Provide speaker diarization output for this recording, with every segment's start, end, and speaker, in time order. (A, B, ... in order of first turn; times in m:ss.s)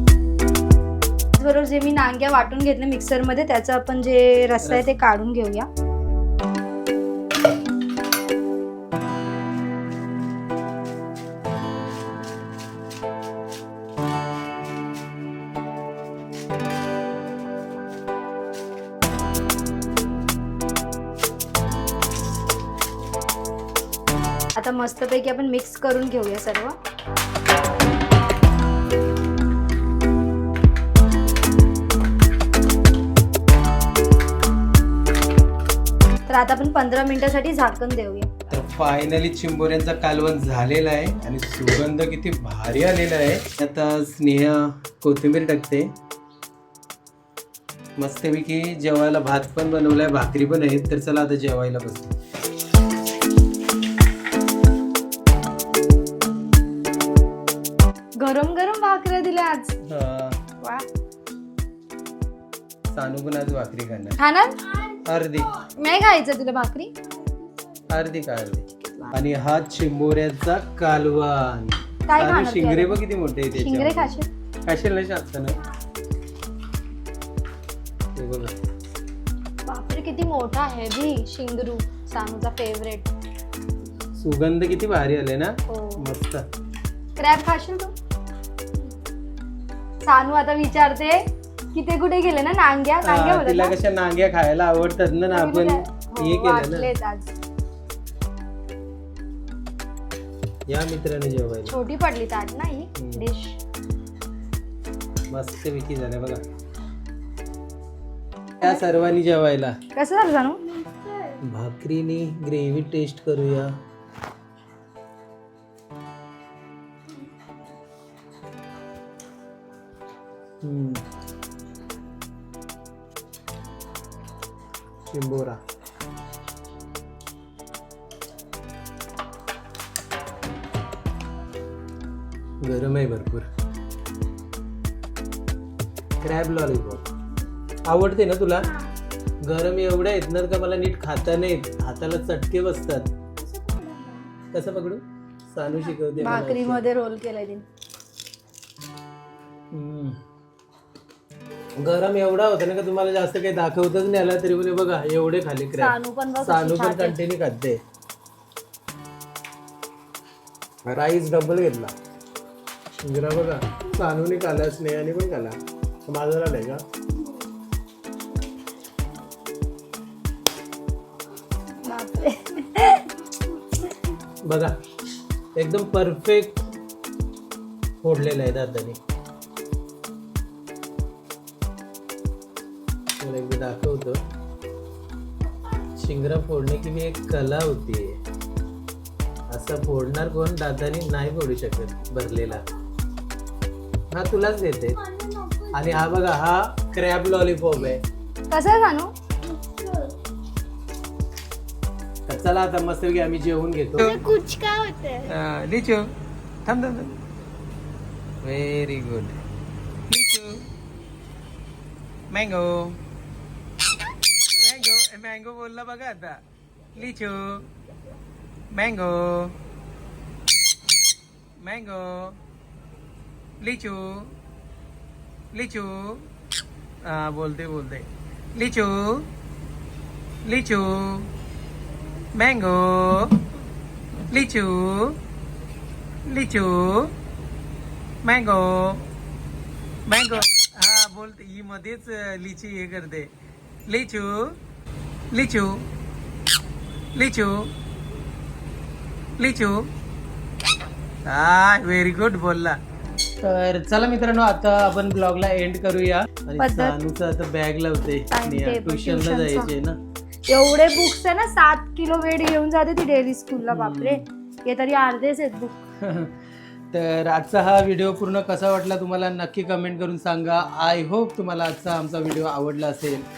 0:01.4-0:05.7 A
0:04.6-0:04.9 B
0:24.6-0:26.8 A
0:36.3-0:38.3 A
0:38.5-0:45.9 B
0:48.0-0:52.2 B
0:58.2-0:59.8 A
0:59.9-1:00.4 B
1:00.6-1:00.9 A
1:02.9-1:04.2 B
1:04.2-1:04.8 A
1:05.0-1:05.6 B
1:05.5-1:06.9 A
1:07.9-1:15.6 B
1:12.1-1:13.0 A
1:13.5-1:14.3 A
1:18.2-1:18.6 B
1:19.7-1:23.1 A
1:24.2-1:26.4 B
1:25.7-1:26.0 A
1:27.2-1:27.9 A
1:30.0-1:33.8 A
1:33.0-1:36.9 B
1:35.3-1:37.3 A
1:40.7-1:41.8 B
1:41.7-1:43.6 A
1:43.0-1:43.2 B
1:45.3-1:46.4 B
1:48.6-1:49.8 B
1:49.9-1:51.3 A
1:51.4-1:53.7 B
2:00.6-2:01.0 B
2:05.1-2:05.6 B
2:12.6-2:13.5 B
2:16.2-2:17.1 B
2:17.9-2:18.7 B
2:19.4-2:23.1 B
2:23.4-2:24.3 A
2:24.5-2:26.8 B
2:26.2-2:27.6 A
2:29.7-2:30.2 B
2:31.8-2:37.8 B
2:35.8-2:37.2 A
2:40.8-2:42.0 B
2:43.0-2:46.8 B
2:51.8-2:53.1 A
2:54.4-2:54.8 B
2:55.6-2:56.6 B
2:58.0-2:59.0 B
3:03.2-3:04.2 B
3:06.0-3:08.2 B
3:09.5-3:12.6 B
3:14.1-3:15.0 B
3:15.3-3:15.7 A
3:15.7-3:18.0 B
3:18.5-3:20.1 A
3:22.3-3:24.2 B
3:24.0-3:25.3 A
3:25.2-3:26.1 B
3:26.6-3:27.2 B
3:28.4-3:29.4 B
3:30.1-3:30.7 B
3:32.3-3:33.0 B
3:34.5-3:36.4 B
3:37.0-3:37.6 B
3:38.7-3:39.6 B
3:41.6-3:42.4 B
3:43.6-3:44.4 B
3:45.5-3:46.3 B
3:47.0-3:49.3 B
3:50.4-3:51.3 B
3:52.4-3:53.4 B
3:54.3-3:55.2 B
3:56.3-3:57.1 B
3:58.2-3:59.1 B
4:00.1-4:03.3 B
4:03.9-4:04.6 B
4:05.3-4:05.9 B
4:07.2-4:07.7 B
4:09.4-4:09.9 B
4:11.3-4:12.8 B
4:13.4-4:20.0 B
4:16.6-4:17.0 A
4:18.3-4:19.7 A
4:20.5-4:25.8 A
4:23.7-4:24.2 B
4:26.0-4:26.3 B
4:26.9-4:33.2 B